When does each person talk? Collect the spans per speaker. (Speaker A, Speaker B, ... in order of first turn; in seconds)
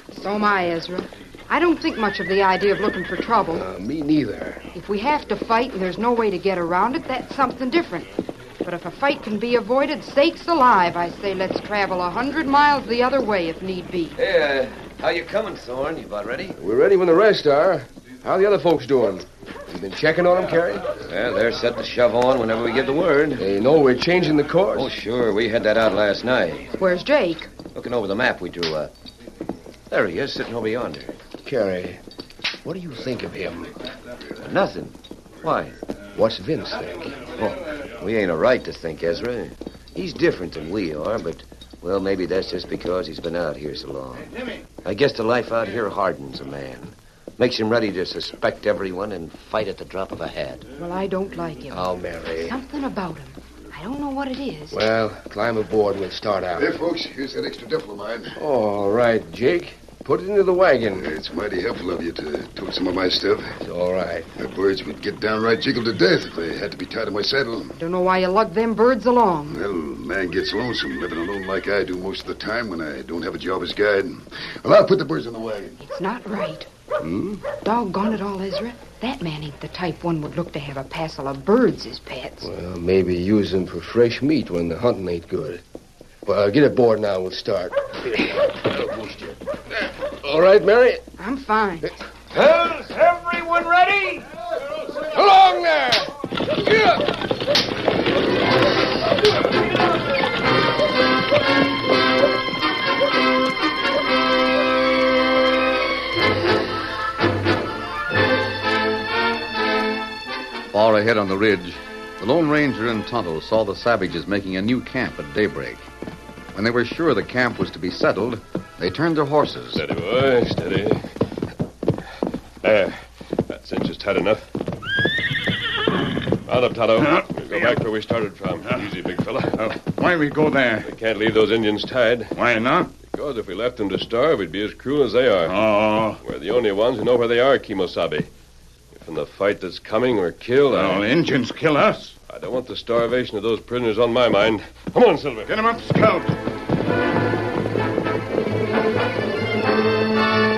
Speaker A: 0.1-3.6, 4.7-8.1, 8.6-14.2, 26.8-27.5, 50.8-54.8, 67.8-69.6, 75.8-76.7, 77.5-82.5, 91.2-92.0
Speaker B: 3.5-4.7, 16.6-20.9, 23.4-24.9, 31.4-32.0, 32.6-33.8, 36.1-37.2, 51.7-52.5, 54.7-56.7, 58.4-61.1, 63.6-64.3, 77.0-77.4, 82.4-85.6, 86.2-91.0, 95.1-97.0
Speaker C: 14.2-16.6, 21.0-23.4, 24.7-26.7, 27.7-28.9, 29.9-31.1, 34.4-35.8, 37.3-44.3, 44.8-50.6, 92.3-94.2
Speaker D: 56.5-58.4, 60.9-63.5, 64.3-67.8, 69.5-75.8
Speaker E: 110.7-115.8, 116.5-119.8
Speaker F: 119.7-121.1, 122.6-124.5, 126.4-129.7, 130.8-132.4, 133.0-135.6, 136.2-138.3, 138.9-141.1, 142.3-145.5
Speaker G: 127.0-127.8, 129.6-130.9, 132.3-132.9, 135.5-136.2, 140.7-142.1, 145.5-146.4